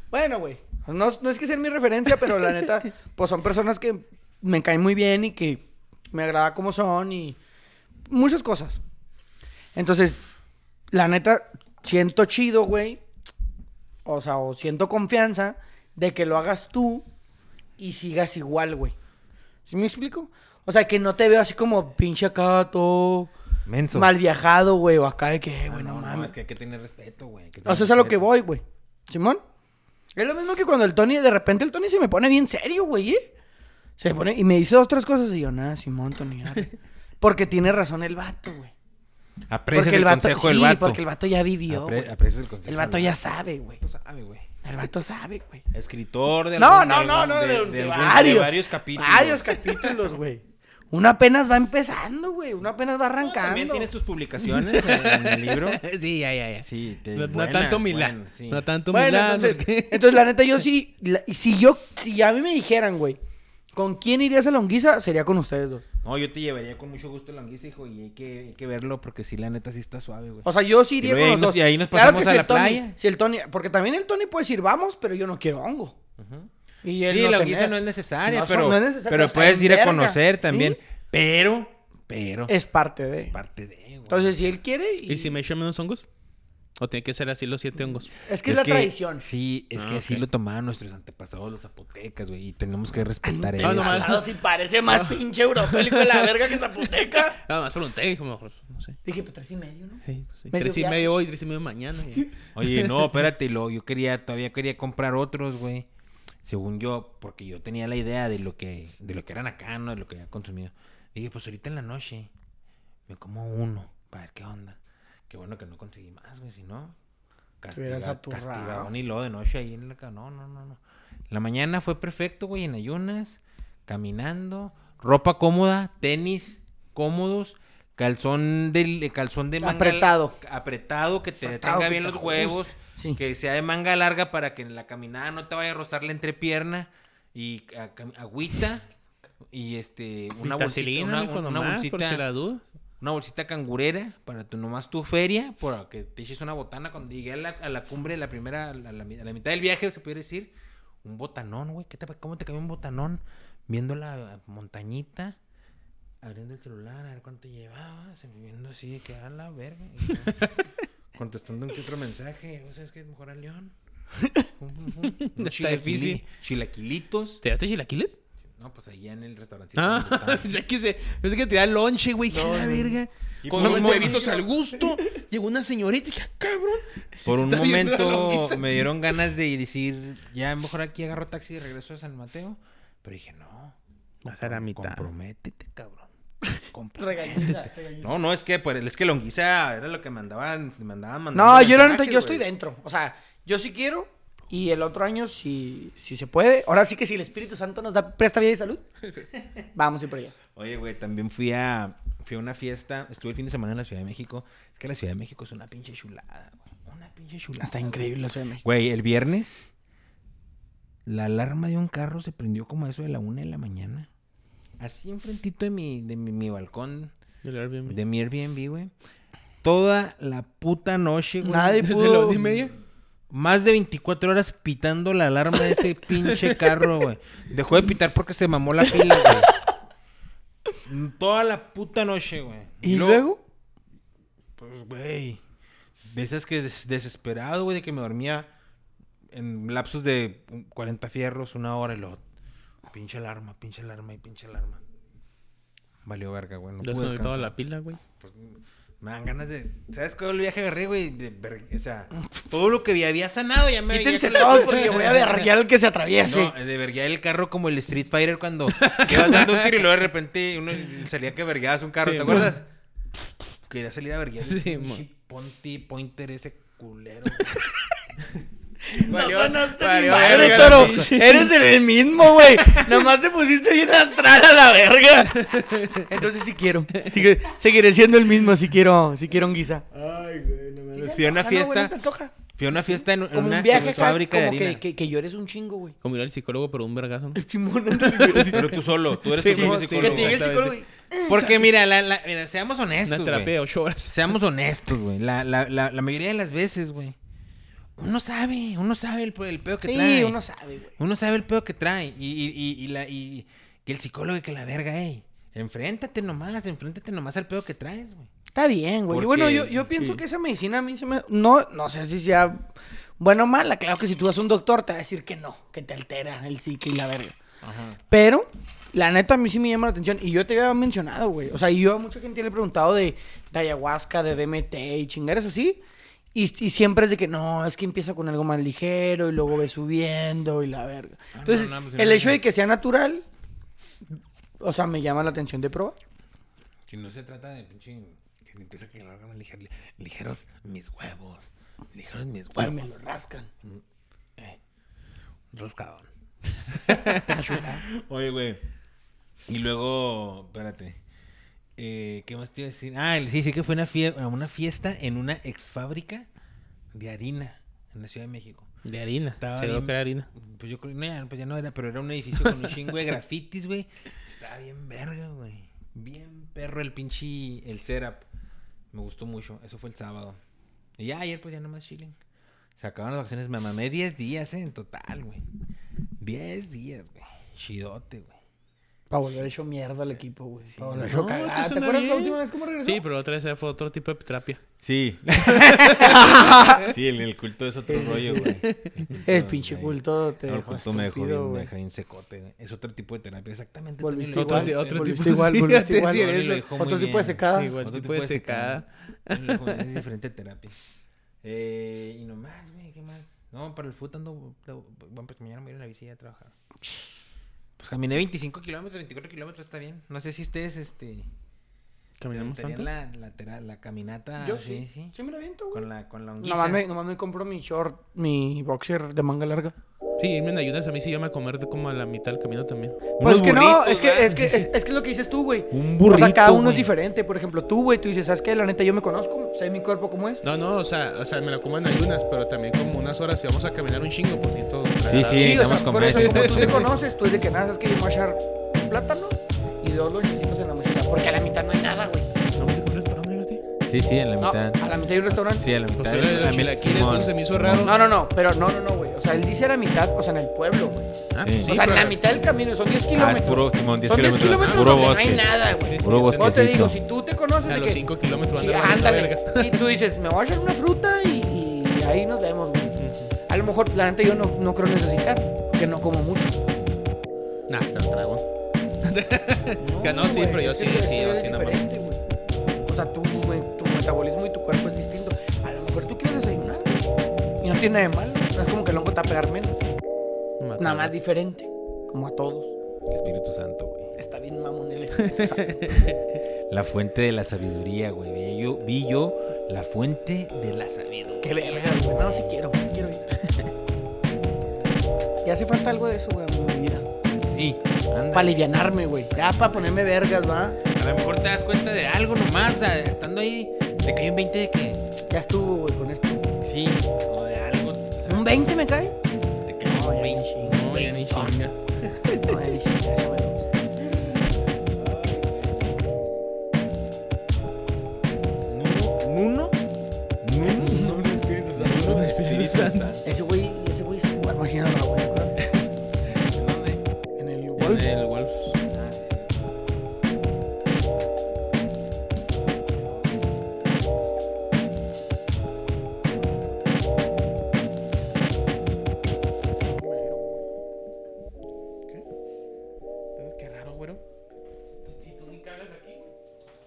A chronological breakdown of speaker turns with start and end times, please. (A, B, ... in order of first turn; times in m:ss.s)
0:00.1-0:07.4 A
0:08.1-0:08.8 A
0:09.7-0:10.2 A
0:10.9-0:13.0 A
0:14.0-0:17.1 A
0:17.8-0:18.9 A
0:19.7-0:23.3 A
0:23.6-0:24.1 B
0:23.9-0:26.3 A
0:25.7-0:28.2 B
0:27.6-0:29.4 A
0:30.2-0:33.3 A
0:34.0-0:38.7 A
0:39.5-0:41.0 B
0:39.7-0:43.8 A
0:41.7-0:43.2 B
0:43.8-0:44.5 B
0:44.6-0:45.6 A
0:45.7-0:49.8 B
0:46.6-0:53.9 A
0:53.2-0:55.8 B
0:54.4-1:00.3 C
0:56.6-0:58.6 B
0:58.9-1:03.2 A
1:03.7-1:05.8 A
1:06.0-1:10.5 B
1:10.4-1:16.0 A
1:11.0-1:13.0 B
1:16.2-1:16.5 B
1:16.8-1:20.8 A
1:17.1-1:22.5 B
1:22.5-1:23.3 A
1:23.2-1:24.5 B
1:24.1-1:25.3 A
1:25.1-1:26.1 C
1:26.8-1:28.1 C
1:28.2-1:29.2 A
1:28.4-1:34.2 B
1:29.7-1:30.2 C
1:33.2-1:37.4 A
1:33.6-1:34.3 C
1:34.8-1:39.0 C
1:39.0-1:41.1 A
1:40.0-1:42.9 C
1:42.5-1:45.9 B
1:46.4-1:52.3 B
1:53.1-1:57.0 B
1:57.6-2:18.8 B
1:57.7-1:58.9 A
2:09.6-2:10.4 A
2:11.4-2:13.2 A
2:19.5-2:22.2 B
2:20.4-2:22.6 C
2:23.0-2:35.4 B
2:36.2-2:40.5 B
2:40.2-2:40.7 C
2:41.1-2:43.8 B
2:44.2-2:44.5 A
2:44.6-2:47.4 B
2:45.2-2:46.2 C
2:47.4-2:48.2 C
2:48.4-2:50.5 B
2:49.8-2:58.9 C
2:52.3-2:54.4 B
2:53.5-2:54.4 A
2:57.2-3:03.8 B
3:04.2-3:05.1 C
3:04.3-3:06.1 B
3:06.7-3:12.5 B
3:07.0-3:08.1 A
3:11.3-3:18.8 A
3:19.7-3:20.4 A
3:20.5-3:29.7 B
3:27.6-3:28.6 A
3:31.0-3:34.1 B
3:34.8-3:37.1 B
3:37.4-3:38.0 C
3:37.8-3:38.9 B
3:39.6-3:41.8 B
3:41.4-3:42.4 A
3:41.8-3:42.7 C
3:43.3-3:49.5 B
3:46.2-3:46.6 C
3:50.8-3:53.2 B
3:52.8-3:53.4 A
3:54.6-3:55.4 B
3:56.0-3:58.5 B
3:59.3-4:02.2 B
4:02.9-4:04.8 B
4:06.0-4:07.5 B
4:06.8-4:08.0 C
4:08.2-4:15.1 B
4:13.9-4:16.5 A
4:14.9-4:15.3 C
4:16.2-4:22.7 B
4:18.7-4:19.8 C
4:22.0-4:22.5 C
4:23.6-4:27.7 B
4:24.4-4:25.0 C
4:28.9-4:46.0 A
4:29.0-4:31.5 C
4:29.1-4:31.1 B
4:35.4-4:36.0 C
4:40.9-4:44.8 B
4:46.0-4:48.8 C
4:47.3-4:48.8 A
4:48.5-4:50.4 B
4:49.3-4:51.7 C
4:49.4-4:51.4 A
4:51.3-4:53.5 B
4:53.0-4:54.3 C
4:54.1-4:57.2 B
4:58.0-5:00.4 B
4:59.8-5:01.0 A
5:01.0-5:08.3 B
5:08.5-5:17.4 A
5:09.1-5:10.1 B
5:17.6-5:18.0 B
5:18.1-5:25.8 A
5:26.3-5:33.2 A
5:31.3-5:32.4 B
5:34.6-5:36.0 A
5:36.9-5:42.9 B
5:42.6-5:43.5 A
5:45.5-5:46.1 B
5:46.7-5:48.6 B
5:46.9-5:47.8 A
5:49.5-5:51.0 B
5:51.8-5:56.3 B
5:56.9-5:58.7 B
5:58.8-6:00.3 C
5:59.4-6:08.2 B
6:08.9-6:10.4 B
6:11.0-6:12.2 B
6:12.8-6:15.4 B
6:16.2-6:18.4 B
6:19.1-6:23.0 A
6:20.7-6:21.1 B
6:21.0-6:24.6 C
6:24.8-6:40.8 B
6:25.5-6:26.3 C
6:26.0-6:26.9 A
6:27.9-6:28.4 A
6:28.0-6:29.0 C
6:29.2-6:31.7 A
6:34.0-6:37.8 A
6:34.3-6:36.7 C
6:37.5-6:39.9 C
6:41.4-6:46.5 B
6:47.8-6:51.3 B
6:52.2-6:52.9 C
6:52.3-6:55.1 B
6:54.4-6:55.8 A
6:55.7-6:56.8 B
6:56.4-6:59.7 A
7:00.2-7:03.0 C
7:03.2-7:04.5 B
7:03.2-7:10.4 A
7:05.7-7:06.9 B
7:10.4-7:16.9 C
7:15.0-7:16.9 B
7:15.3-7:22.3 A
7:22.6-7:23.6 C
7:23.9-7:24.8 B
7:24.4-7:25.7 A
7:25.3-7:27.9 B
7:26.0-7:28.0 C
7:27.8-7:46.6 A
7:31.3-7:32.4 C
7:31.4-7:31.8 B
7:33.1-7:37.0 B
7:34.3-7:35.1 C
7:35.9-7:36.8 C
7:37.7-7:39.8 C
7:43.0-7:43.3 C
7:47.7-7:48.4 C
7:49.0-7:51.2 C
7:49.8-7:52.2 A
7:50.9-7:51.9 B
7:52.9-7:59.8 A
8:00.6-8:01.1 C
8:00.8-8:02.7 A
8:03.1-8:04.1 B
8:04.2-8:06.0 A
8:05.2-8:06.2 C
8:06.7-8:12.5 B
8:11.4-8:13.4 A
8:14.2-8:15.0 B
8:15.4-8:17.0 A
8:17.5-8:18.6 B
8:18.3-8:20.8 A
8:19.3-8:19.9 B
8:20.9-8:25.0 B
8:25.3-8:26.4 A
8:26.6-8:28.8 B
8:28.2-8:29.2 A
8:29.6-8:32.1 B
8:29.8-8:31.6 A
8:30.6-8:31.7 C
8:32.2-8:33.6 A
8:34.1-8:36.5 B
8:37.9-8:39.8 B
8:40.4-8:43.3 B
8:40.6-8:43.2 C
8:40.8-8:41.1 A
8:43.2-8:45.7 A
8:46.3-8:47.0 B
8:47.4-8:48.1 A
8:47.8-8:48.8 C
8:48.8-8:49.8 B
8:53.0-8:53.3 B
8:59.8-9:00.6 C
9:03.4-9:04.2 C
9:05.0-9:06.3 C